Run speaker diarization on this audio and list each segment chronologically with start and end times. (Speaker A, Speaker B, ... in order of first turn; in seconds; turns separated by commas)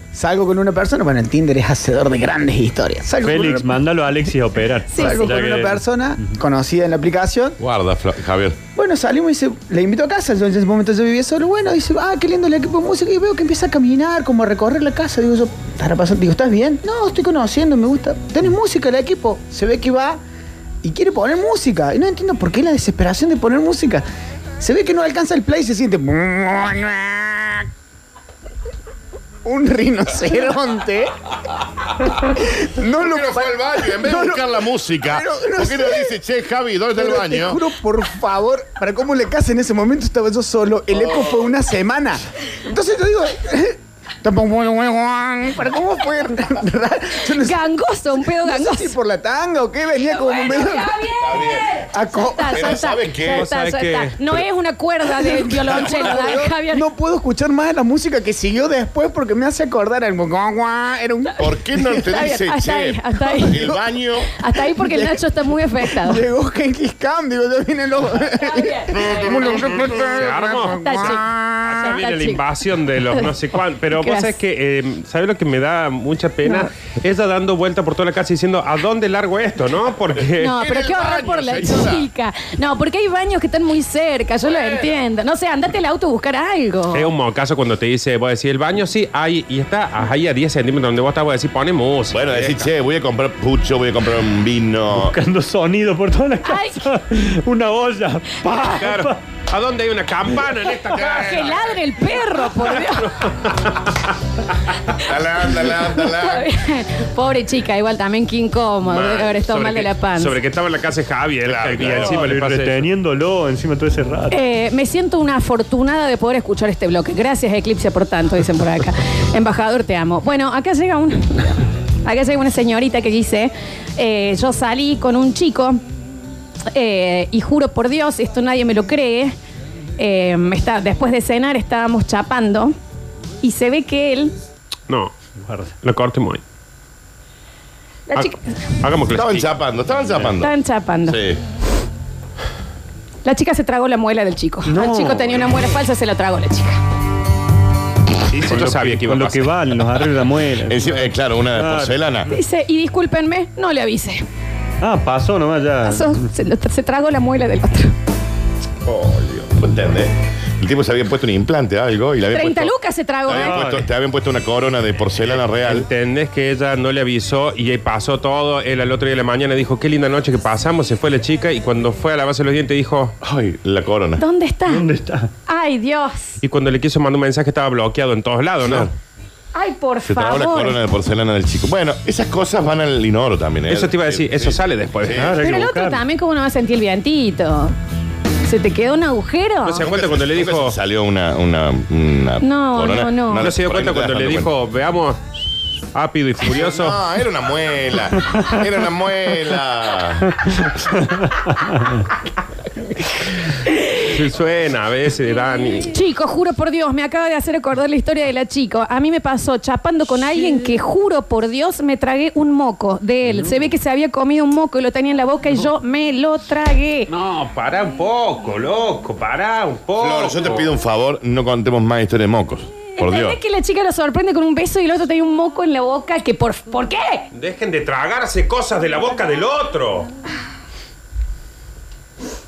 Speaker A: 0.1-3.8, Speaker B: 3.2-5.8, Speaker C: 4.9-5.4, Speaker A: 4.9-7.6, Speaker D: 7.6-8.6, Speaker A: 8.8-20.2, Speaker A: 20.8-24.1, Speaker A: 24.6-27.7, Speaker A: 29.4-31.1, Speaker A: 32.4-36.2, Speaker D: 33.0-37.6, Speaker A: 37.0-47.6, Speaker C: 47.4-49.0, Speaker A: 48.3-51.1, Speaker C: 50.2-56.9, Speaker D: 51.2-51.7, Speaker A: 51.8-52.8, Speaker D: 52.5-53.5, Speaker E: 53.2-54.4, Speaker A: 55.2-61.6, Speaker D: 55.7-56.3, Speaker D: 61.4-64.3, Speaker C: 61.9-63.8, Speaker C: 64.3-66.2, Speaker A: 64.7-71.9, Speaker E: 70.0-80.6, Speaker C: 70.8-71.3, Speaker C: 71.8-72.4, Speaker C: 73.9-74.4, Speaker C: 80.4-87.1, Speaker D: 80.4-82.1, Speaker E: 86.9-92.7, Speaker D: 92.1-95.2, Speaker B: 94.9-99.2, Speaker C: 96.4-96.9, Speaker E: 98.6-101.8, Speaker C: 101.0-103.1, Speaker D: 101.1-101.4, Speaker E: 102.5-103.8, Speaker D: 104.9-106.5, Speaker C: 105.4-110.4, Speaker E: 108.9-112.9, Speaker D: 111.4-112.2, Speaker B: 111.6-114.4, Speaker C: 114.3-125.8, Speaker C: 126.7-129.3, Speaker C: 130.0-132.8, Speaker C: 133.4-134.3, Speaker E: 134.9-135.1, Speaker B: 135.4-135.7, Speaker E: 135.8-136.4, Speaker C: 138.1-138.6, Speaker E: 138.2-139.5, Speaker D: 139.1-140.6, Speaker C: 140.4-141.2, Speaker D: 141.1-141.4, Speaker C: 143.2-146.8, Speaker B: 144.7-145.4, Speaker E: 148.3-149.6, Speaker B: 148.4-152.0, Speaker D: 150.7-152.3, Speaker C: 152.3-154.2, Speaker B: 154.8-156.2, Speaker C: 155.8-157.9, Speaker D: 158.9-162.7, Speaker C: 162.3-163.6, Speaker D: 163.3-165.9, Speaker B: 163.4-163.9, Speaker E: 165.3-173.2, Speaker D: 173.2-174.2, Speaker C: 174.2-174.9, Speaker B: 174.7-175.3, Speaker C: 175.5-176.4, Speaker E: 176.4-178.9, Speaker D: 178.6-178.9, Speaker C: 179.6-180.8, Speaker D: 180.1-185.4, Speaker E: 183.7-185.8, Speaker B: 185.2-186.0, Speaker C: 185.2-187.8, Speaker C: 188.4-189.8, Speaker E: 189.7-190.8, Speaker D: 189.8-194.5, Speaker C: 192.4-193.5, Speaker E: 193.3-195.2, Speaker E: 195.9-197.0, Speaker D: 196.5-200.6, Speaker E: 204.0-205.9, Speaker C: 205.9-217.1, Speaker E: 217.1-220.7, Speaker D: 220.0-223.4, Speaker C: 223.0-227.3, Speaker E: 227.3-230.1